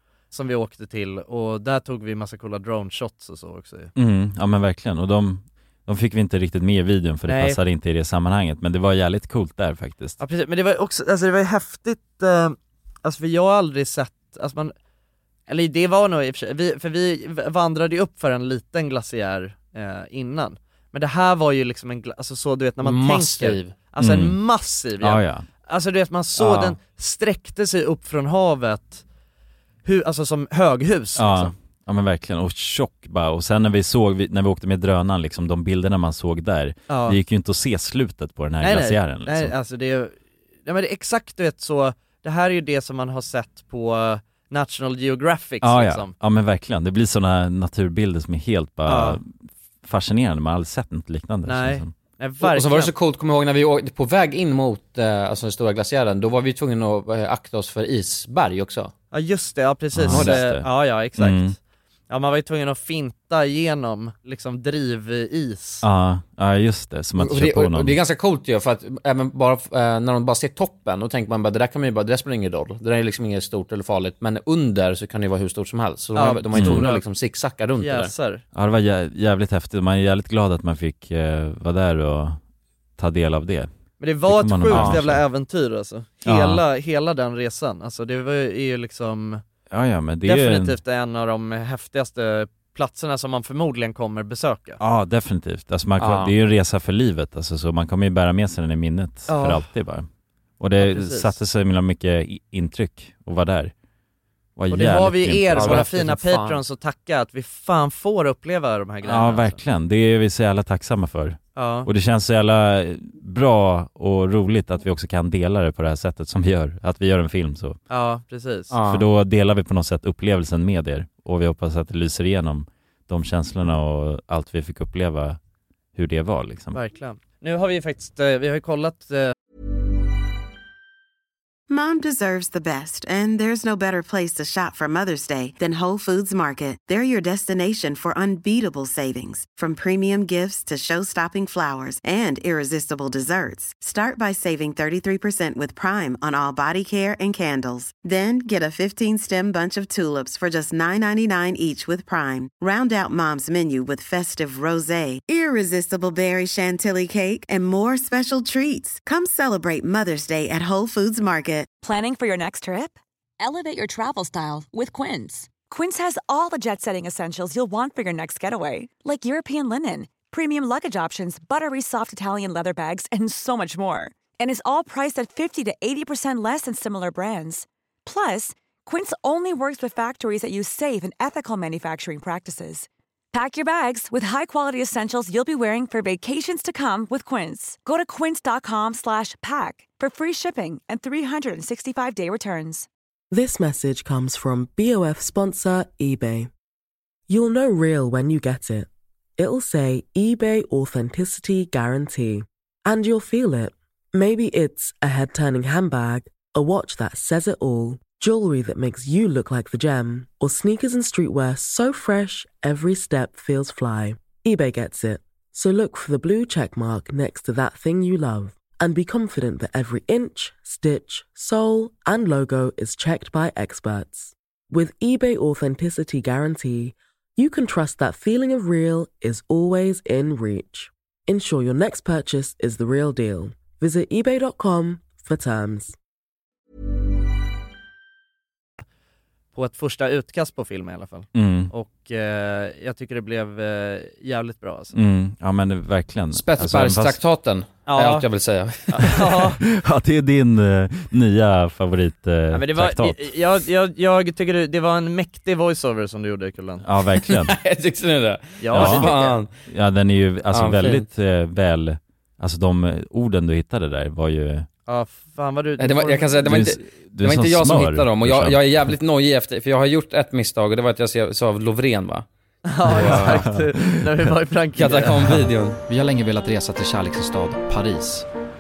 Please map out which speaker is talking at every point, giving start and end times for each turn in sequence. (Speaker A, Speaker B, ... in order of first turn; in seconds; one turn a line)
Speaker A: 0.3-3.9
Speaker B: 4.0-10.2
Speaker A: 7.3-7.6
Speaker A: 10.2-14.7
Speaker A: 15.5-29.0
Speaker C: 22.8-23.8
Speaker B: 24.0-24.4
Speaker B: 25.0-25.4
Speaker B: 26.4-26.8
Speaker A: 29.9-31.5
Speaker B: 31.2-39.5
Speaker A: 36.9-37.2
Speaker A: 38.6-40.1
Speaker A: 40.7-46.1
Speaker B: 45.6-49.3
Speaker A: 48.9-49.2
Speaker B: 49.8-51.9
Speaker A: 51.5-52.9
Speaker C: 52.4-58.9
Speaker A: 59.1-61.5
Speaker B: 59.9-61.6
Speaker C: 60.1-60.5
Speaker A: 62.1-65.8
Speaker B: 65.8-68.0
Speaker C: 67.2-78.1
Speaker A: 76.2-77.0
Speaker B: 76.5-76.9
Speaker A: 77.8-78.4
Speaker B: 78.5-82.4
Speaker B: 83.0-83.7
Speaker A: 84.0-89.4
Speaker B: 84.2-85.2
Speaker C: 84.7-85.0
Speaker B: 86.2-86.6
Speaker B: 89.7-90.8
Speaker A: 90.2-94.8
Speaker B: 94.8-100.1
Speaker C: 96.0-96.3
Speaker A: 99.3-99.7
Speaker B: 100.6-103.7
Speaker A: 100.8-101.3
Speaker B: 104.6-105.8
Speaker A: 104.7-109.6
Speaker C: 105.6-106.6
Speaker B: 109.0-117.8
Speaker A: 111.6-111.9
Speaker A: 117.9-118.7
Speaker C: 118.7-119.1
Speaker B: 118.9-125.4
Speaker B: 126.0-126.8
Speaker A: 126.7-129.3
Speaker D: 131.7-161.7
Speaker E: 161.8-192.9
Speaker F: 193.3-196.5
Speaker F: 197.3-236.0
Speaker A: 239.5-244.9
Speaker B: 241.3-241.7
Speaker B: 244.9-247.2
Speaker C: 246.3-249.1
Speaker A: 247.9-248.2
Speaker A: 248.9-249.6
Speaker B: 249.1-253.3
Speaker A: 252.5-256.8
Speaker B: 256.8-257.6
Speaker C: 257.3-259.5
Speaker A: 258.6-259.4
Speaker B: 258.7-259.1
Speaker B: 259.7-264.7
Speaker C: 260.5-261.1
Speaker A: 264.9-266.3
Speaker C: 265.8-272.3
Speaker B: 266.4-268.9
Speaker A: 272.7-275.2
Speaker C: 272.9-273.4
Speaker B: 273.0-274.3
Speaker C: 274.8-275.8
Speaker G: 276.0-278.2